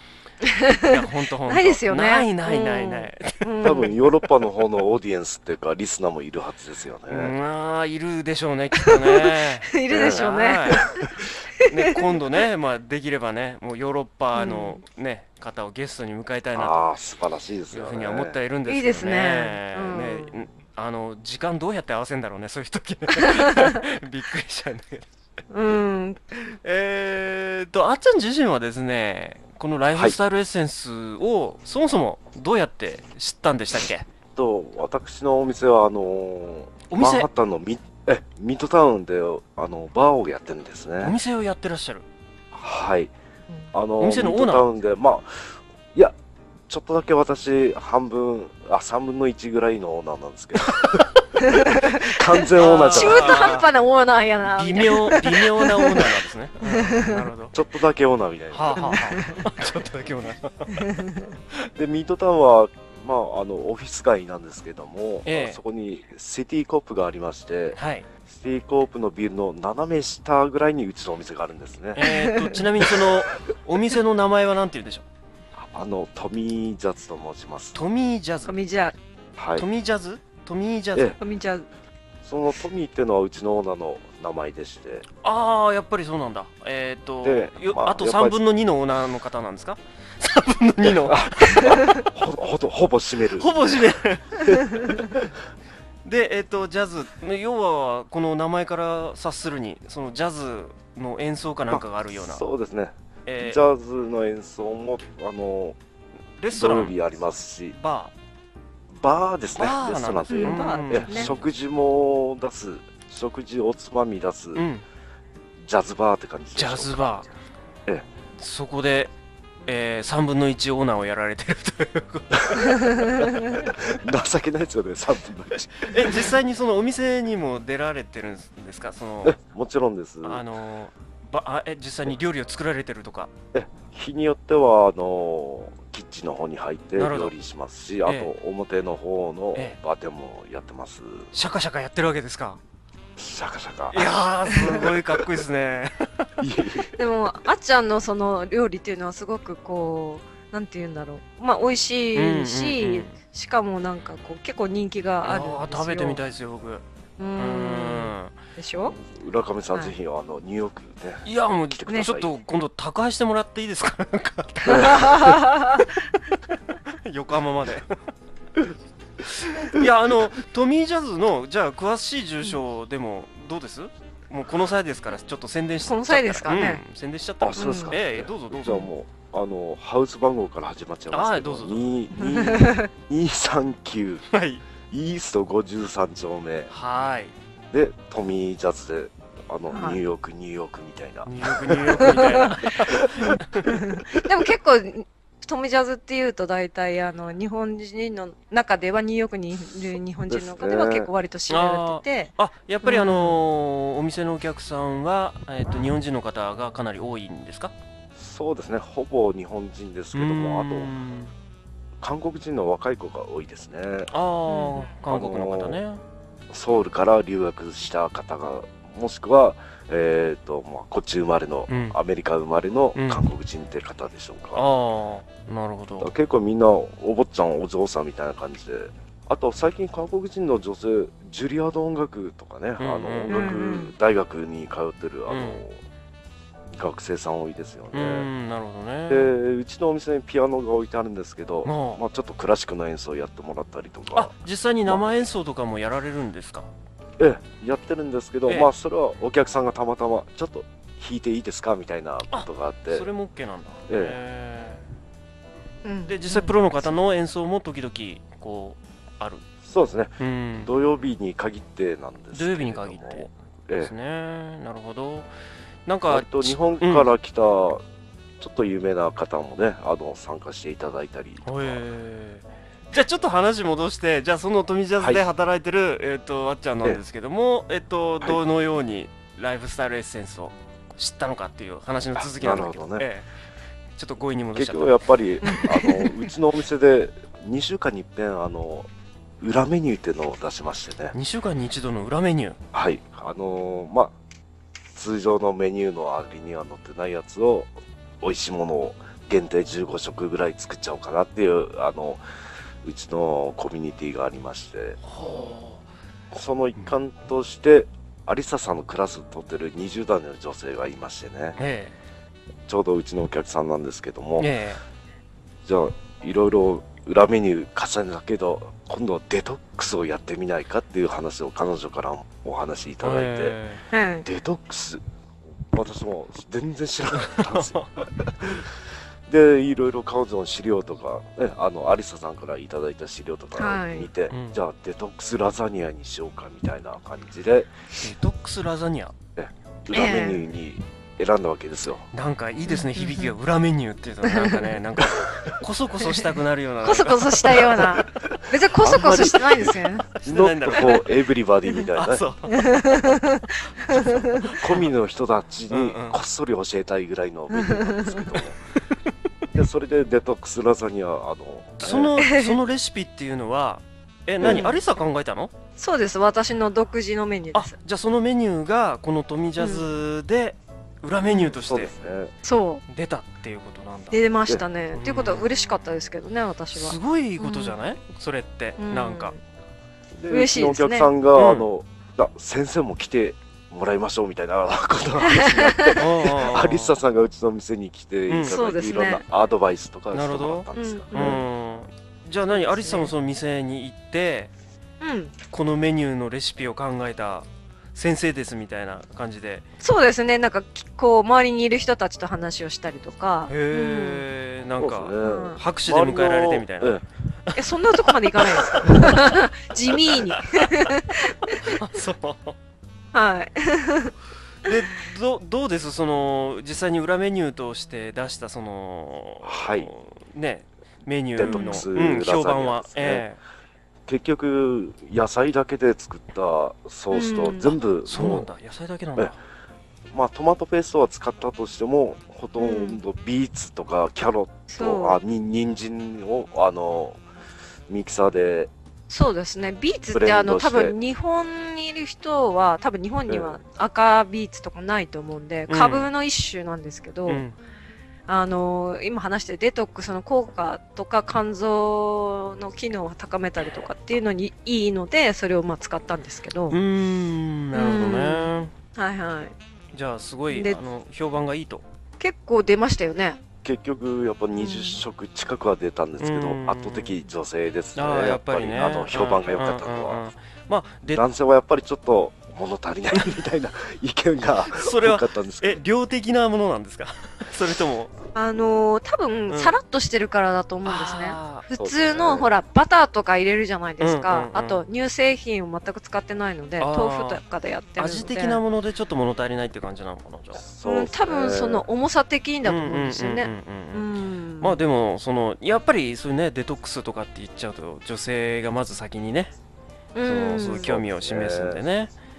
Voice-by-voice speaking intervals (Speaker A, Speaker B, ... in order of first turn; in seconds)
Speaker A: 0.4-4.0, 8.8-11.1, 11.6-12.0, 14.3-14.8, 18.6-20.4, 23.2-23.7, 25.5-26.2, 51.4-57.2, 58.8-59.4, 60.8-61.3, 72.0-72.5, 78.5-78.9, 81.2-81.7, 91.6-91.9, 110.3-111.3, 146.9-156.2, 157.2-158.9, 164.7-166.0, 175.9-176.8, 177.6-177.9, 182.1-182.9, 189.7-190.0, 192.0-192.4, 193.7-203.4, 214.5-214.9, 233.3-233.9, 255.8-256.5, 285.4-286.3, 323.9-324.2, 333.6-334.1, 339.9-340.4, 342.7-343.3, 344.2-344.7, 346.8-350.1, 352.5-354.6, 357.5-358.4, 362.2-362.6, 364.4-364.8, 365.8-367.7, 369.6-369.9, 372.4-372.8, 374.1-377.8, 378.8-379.4, 380.3-381.1, 385.2-386.0, 388.4-389.2, 390.8-391.4, 392.5-393.1, 395.0-395.3, 399.8-404.2, 405.2-405.6, 407.5-411.8, 413.1-414.1, 421.4-421.8, 427.1-427.8, 432.6-433.0, 434.7-435.2, 439.1-447.4, 448.3-456.8, 457.7-459.5, 460.5-460.8, 462.2-463.4, 464.6-465.0, 478.3-488.6, 490.8-494.8, 500.1-500.9
Speaker B: 0.8-3.9, 7.1-11.0, 11.6-16.8, 17.7-25.1, 26.4-34.1, 36.9-37.3, 41.0-42.0, 44.0-44.6, 50.7-51.2, 52.5-53.7, 54.5-57.5, 58.5-60.9, 65.2-65.6, 67.7-68.1, 71.9-75.0, 77.7-78.5, 79.5-81.1, 85.2-91.8, 93.4-95.0, 96.0-102.4, 103.2-103.6, 106.4-106.9, 107.7-108.1, 109.6-111.4, 114.5-114.8, 116.5-117.3, 118.4-119.1, 119.6-123.7, 125.8-129.4, 130.2-133.3, 136.9-137.3, 138.0-138.3, 141.3-142.6, 143.9-146.3, 152.1-153.1, 155.2-156.8, 157.3-158.3, 161.2-165.4, 166.8-168.0, 169.4-178.9, 181.1-181.8, 184.3-184.6, 186.7-187.3, 191.2-193.8, 201.5-207.7, 210.1-211.3, 214.1-216.0, 221.7-222.0, 222.9-223.2, 224.5-226.1, 232.8-233.6, 235.3-235.6, 237.9-239.3, 241.6-242.0, 244.1-246.7, 252.3-254.8, 256.1-259.4, 260.2-260.7, 262.3-265.3, 265.9-267.1, 271.4-283.3, 284.0-285.0, 291.1-292.6, 305.0-305.8, 311.6-311.9, 314.4-314.8, 323.0-323.8, 327.1-328.3, 334.3-334.6, 338.0-339.1, 342.1-347.9, 350.2-351.1, 351.9-353.1, 353.9-354.9, 355.7-356.2, 361.8-365.5, 367.5-371.9, 372.9-374.2, 374.9-375.4, 376.7-379.3, 381.3-381.7, 385.9-386.9, 388.3-388.6, 390.1-394.5, 395.5-399.6, 403.5-409.4, 409.9-410.9, 411.5-412.6, 414.6-423.4, 428.0-429.4, 445.7-446.1, 447.3-447.5, 456.7-458.7, 459.9-461.8, 466.2-467.1, 467.9-471.2, 474.7-478.1, 479.5-479.8, 480.8-481.6, 484.0-484.8, 486.8-487.4, 488.0-490.6, 492.6-494.1, 494.6-499.5, 500.2-502.1
Speaker C: 3.6-7.3, 9.9-10.2, 16.5-18.4, 34.3-41.1, 42.5-43.1, 43.7-46.1, 46.7-53.5, 57.5-59.0, 61.8-72.1, 72.8-73.1, 75.5-77.8, 79.4-79.6, 82.2-85.0, 87.2-88.4, 90.8-93.9, 94.4-95.3, 101.7-105.8, 106.5-107.8, 108.9-114.7, 115.6-117.0, 123.2-126.3, 129.2-130.4, 133.5-141.3, 143.2-145.2, 146.4-146.9, 158.9-162.3, 164.7-165.0, 177.4-184.2, 184.9-186.7, 187.7-193.3, 200.3-201.1, 208.2-210.9, 212.0-214.1, 215.1-215.8, 216.5-224.6, 226.0-235.8, 236.7-238.3, 239.1-244.3, 244.9-245.2, 247.2-253.1, 253.9-254.2, 259.6-263.9, 266.1-267.8, 268.4-271.8, 282.1-283.1, 284.5-288.9, 289.4-291.1, 292.7-294.1, 294.9-302.2, 302.8-305.0, 306.3-311.6, 312.7-314.5, 315.6-323.6, 324.2-325.0, 325.7-328.7, 329.3-337.7, 339.4-342.1, 347.8-352.2, 353.9-358.6, 359.5-362.1, 364.4-364.7, 371.5-372.3, 380.2-391.4, 404.8-407.0, 419.4-419.9, 421.4-423.2, 424.1-428.5, 430.1-437.2, 437.9-438.7, 440.1-440.9, 443.3-443.6, 463.6-470.3, 471.1-475.8, 481.8-482.5, 490.6-491.9, 500.8-501.8